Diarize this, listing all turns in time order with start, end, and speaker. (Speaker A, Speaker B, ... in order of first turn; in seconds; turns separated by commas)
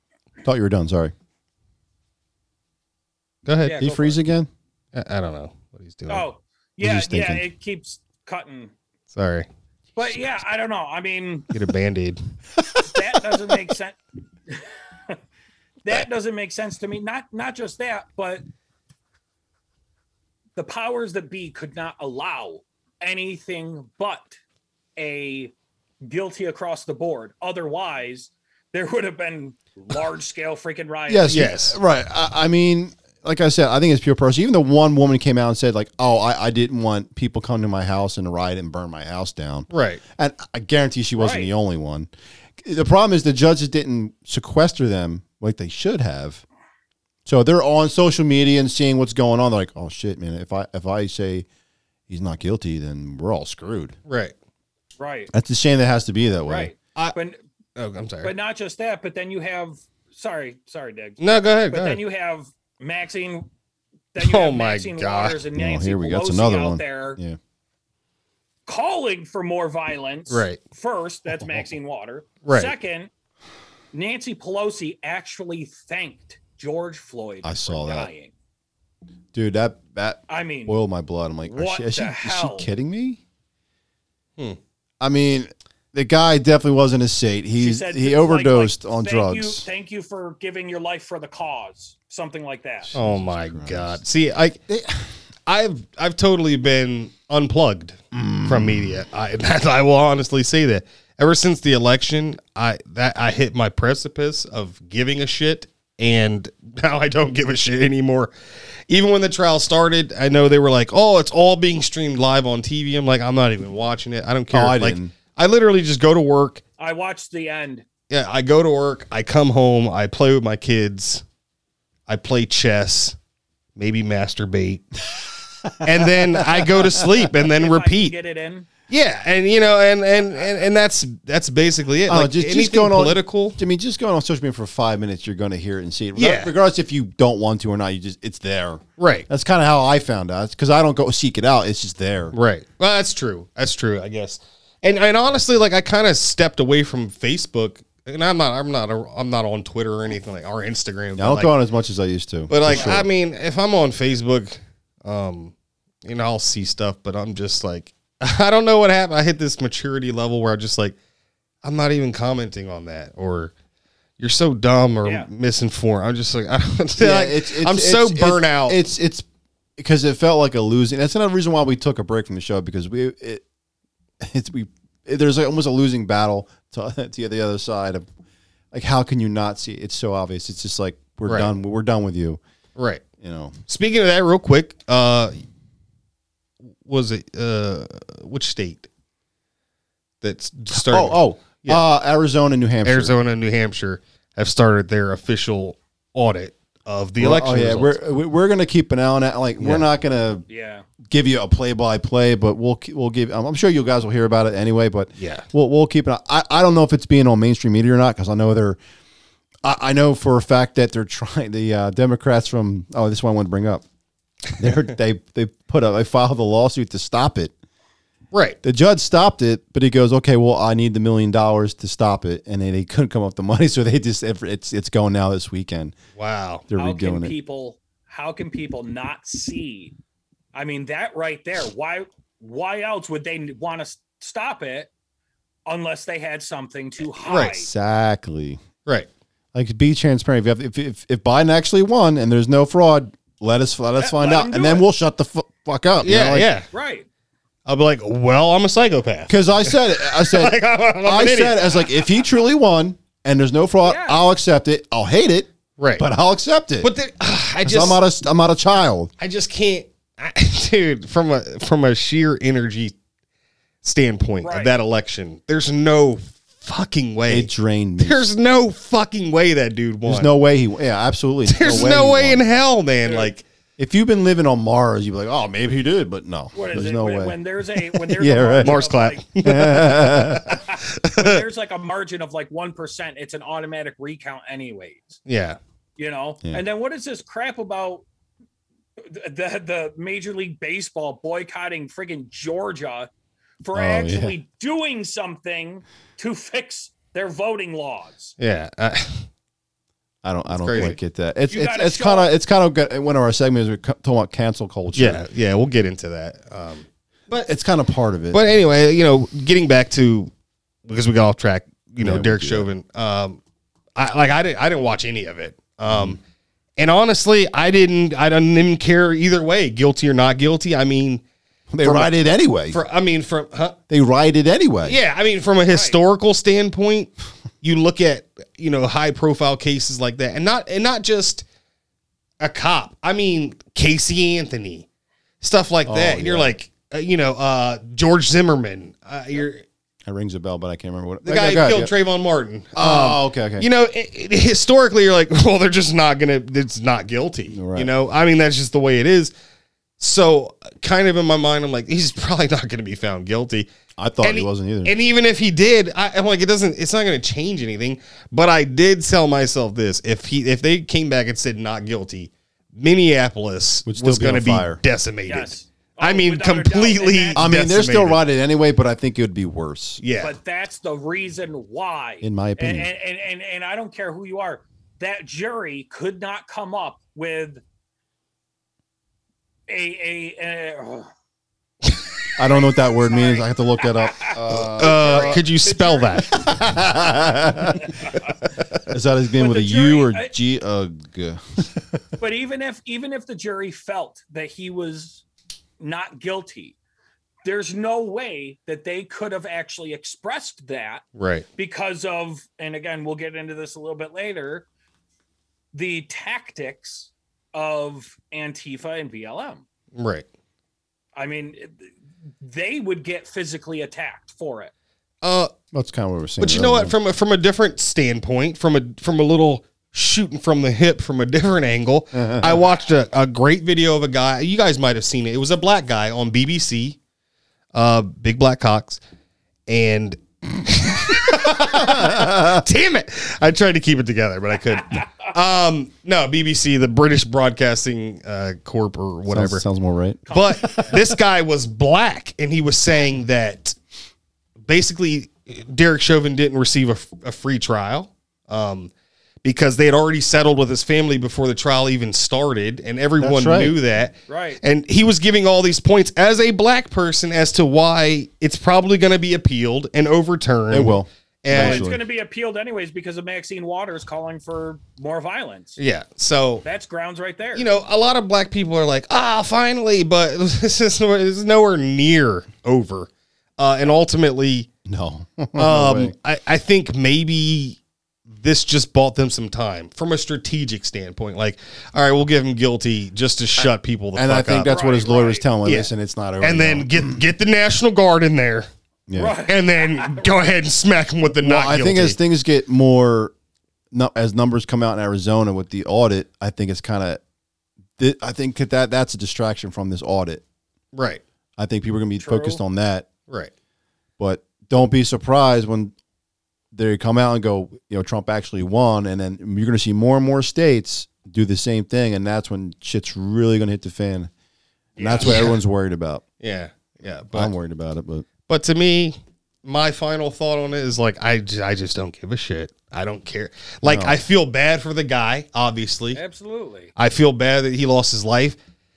Speaker A: 0.4-1.1, Speaker B: 3.5-3.8, Speaker C: 3.6-4.2, Speaker A: 3.8-4.5, Speaker B: 4.9-6.3, Speaker C: 6.1-8.7, Speaker A: 6.8-7.5, Speaker B: 9.1-9.5, Speaker C: 10.0-11.5, Speaker B: 11.5-12.2, Speaker C: 12.8-14.0, Speaker C: 14.5-15.2, Speaker C: 15.8-18.4, Speaker C: 20.6-24.4, Speaker C: 25.0-25.5, Speaker C: 26.0-31.5, Speaker A: 31.1-46.4, Speaker B: 31.3-31.8, Speaker B: 39.7-40.0, Speaker C: 41.2-41.5, Speaker A: 47.3-51.5, Speaker A: 52.1-54.0, Speaker B: 54.1-54.3, Speaker C: 55.0-55.3, Speaker A: 55.3-56.7, Speaker C: 56.5-57.4, Speaker B: 57.8-58.3, Speaker C: 58.2-63.5, Speaker B: 61.2-62.0, Speaker C: 64.1-67.2, Speaker B: 64.2-65.4, Speaker A: 65.5-67.4, Speaker C: 68.7-73.1, Speaker B: 70.3-70.6, Speaker B: 72.4-72.7, Speaker C: 73.9-78.3, Speaker A: 77.4-78.1, Speaker A: 79.3-83.2, Speaker C: 80.3-80.8, Speaker C: 81.5-82.7, Speaker A: 85.0-89.7, Speaker C: 87.6-92.9, Speaker A: 92.8-94.0, Speaker B: 93.0-94.6, Speaker A: 94.7-95.1, Speaker B: 95.5-108.3, Speaker A: 98.1-99.0, Speaker B: 108.9-116.6, Speaker A: 114.5-115.1, Speaker C: 116.8-117.9, Speaker B: 118.1-121.2, Speaker B: 122.1-123.2, Speaker B: 123.8-124.9, Speaker B: 125.8-128.1, Speaker A: 125.8-126.9, Speaker C: 127.5-128.7, Speaker B: 128.9-133.6, Speaker A: 132.1-142.3, Speaker B: 136.2-136.5, Speaker B: 139.0-139.3, Speaker B: 142.3-151.5, Speaker A: 151.2-153.1, Speaker B: 152.5-161.0, Speaker B: 161.6-163.5, Speaker B: 164.2-168.8, Speaker A: 167.0-169.3, Speaker A: 169.8-173.4, Speaker A: 174.2-178.1, Speaker A: 178.7-182.4, Speaker B: 181.3-181.5, Speaker B: 182.8-183.0, Speaker A: 183.2-183.6, Speaker B: 183.7-185.4, Speaker B: 186.8-188.9, Speaker B: 190.2-191.8, Speaker A: 190.7-193.2, Speaker B: 192.8-198.0, Speaker A: 197.2-200.5, Speaker B: 199.6-199.9, Speaker C: 200.5-200.9, Speaker A: 201.1-208.8, Speaker B: 205.2-205.5, Speaker A: 209.6-213.8, Speaker A: 214.6-217.5, Speaker B: 218.3-218.6, Speaker A: 218.6-225.9, Speaker B: 226.2-226.7, Speaker A: 226.7-227.3, Speaker C: 226.8-229.9, Speaker C: 230.5-234.9, Speaker C: 235.7-237.7, Speaker B: 237.2-237.6, Speaker A: 237.5-238.6, Speaker A: 239.5-246.5, Speaker C: 244.0-244.9, Speaker B: 246.0-246.7, Speaker C: 246.7-247.1, Speaker B: 247.7-251.8, Speaker A: 249.3-256.9, Speaker C: 253.8-254.2, Speaker B: 255.8-256.1, Speaker B: 256.8-258.0, Speaker A: 257.6-259.1, Speaker B: 259.2-262.9, Speaker B: 263.8-270.3, Speaker C: 264.4-264.8, Speaker A: 267.3-268.3, Speaker A: 270.1-272.4, Speaker B: 271.5-273.4, Speaker C: 273.0-273.3, Speaker A: 273.8-277.4, Speaker C: 276.5-279.2, Speaker A: 277.9-278.8, Speaker B: 278.6-281.4, Speaker A: 279.4-280.5, Speaker C: 280.5-285.2, Speaker B: 285.3-285.6, Speaker C: 286.0-288.1, Speaker C: 289.0-293.1, Speaker C: 293.6-298.3, Speaker A: 293.7-294.4, Speaker B: 298.4-299.3, Speaker A: 300.2-305.2, Speaker B: 300.5-301.0, Speaker C: 301.5-302.3, Speaker B: 304.9-307.5, Speaker A: 307.4-308.4, Speaker B: 308.3-310.3, Speaker B: 310.9-313.4, Speaker A: 312.0-312.7, Speaker B: 313.9-316.2, Speaker A: 315.9-316.2, Speaker B: 316.8-321.2, Speaker A: 321.7-322.8, Speaker B: 321.8-322.2, Speaker B: 322.7-323.8, Speaker A: 323.9-325.0, Speaker B: 324.8-331.4, Speaker C: 325.7-326.0, Speaker B: 332.4-334.9, Speaker B: 335.4-339.6, Speaker A: 335.9-336.6, Speaker A: 340.1-341.9, Speaker B: 341.2-349.3, Speaker A: 342.8-343.7, Speaker A: 347.5-347.9, Speaker B: 350.0-353.7, Speaker A: 354.0-354.9, Speaker B: 354.2-368.2, Speaker A: 363.9-364.8, Speaker C: 365.3-367.4, Speaker A: 367.4-370.0, Speaker B: 370.0-370.4, Speaker C: 370.2-377.6, Speaker A: 372.2-372.9, Speaker C: 379.7-381.1, Speaker A: 382.4-385.4, Speaker C: 382.4-386.4, Speaker B: 384.8-386.4, Speaker A: 386.3-387.9, Speaker C: 387.8-388.2, Speaker A: 388.9-392.0, Speaker C: 389.4-390.3, Speaker C: 392.2-395.2, Speaker C: 395.8-396.8, Speaker C: 397.4-401.1, Speaker B: 401.2-401.5, Speaker C: 401.6-404.7, Speaker C: 405.7-409.6, Speaker B: 409.9-410.3, Speaker C: 411.2-411.9, Speaker C: 412.4-414.7, Speaker B: 415.2-415.5, Speaker A: 415.7-416.9, Speaker B: 416.4-427.0, Speaker A: 422.1-422.6, Speaker B: 427.7-429.0, Speaker B: 429.7-439.6, Speaker A: 431.7-432.6, Speaker A: 439.3-440.8, Speaker C: 440.3-441.0, Speaker B: 440.3-443.8, Speaker B: 444.7-448.9, Speaker B: 449.4-461.9, Speaker A: 453.2-453.8, Speaker C: 454.3-454.6, Speaker A: 460.7-462.0, Speaker C: 461.5-465.8, Speaker B: 465.8-466.6, Speaker C: 466.6-467.7, Speaker B: 467.6-474.7, Speaker A: 474.9-476.1, Speaker B: 475.6-484.8, Speaker A: 484.1-487.2, Speaker C: 484.6-485.5, Speaker B: 485.6-488.7, Speaker A: 489.1-489.4, Speaker C: 489.1-490.4, Speaker B: 489.5-492.2, Speaker A: 491.4-493.3, Speaker A: 493.9-497.2, Speaker A: 498.0-500.4, Speaker B: 500.9-501.2, Speaker A: 501.6-503.1, Speaker C: 502.2-502.6, Speaker A: 504.2-505.9, Speaker A: 506.7-514.3, Speaker A: 515.0-516.2, Speaker B: 515.0-515.6, Speaker C: 515.2-515.4, Speaker B: 516.4-517.5, Speaker A: 517.3-518.3, Speaker B: 518.5-526.2, Speaker A: 523.8-524.2, Speaker C: 526.1-526.9, Speaker B: 527.0-528.6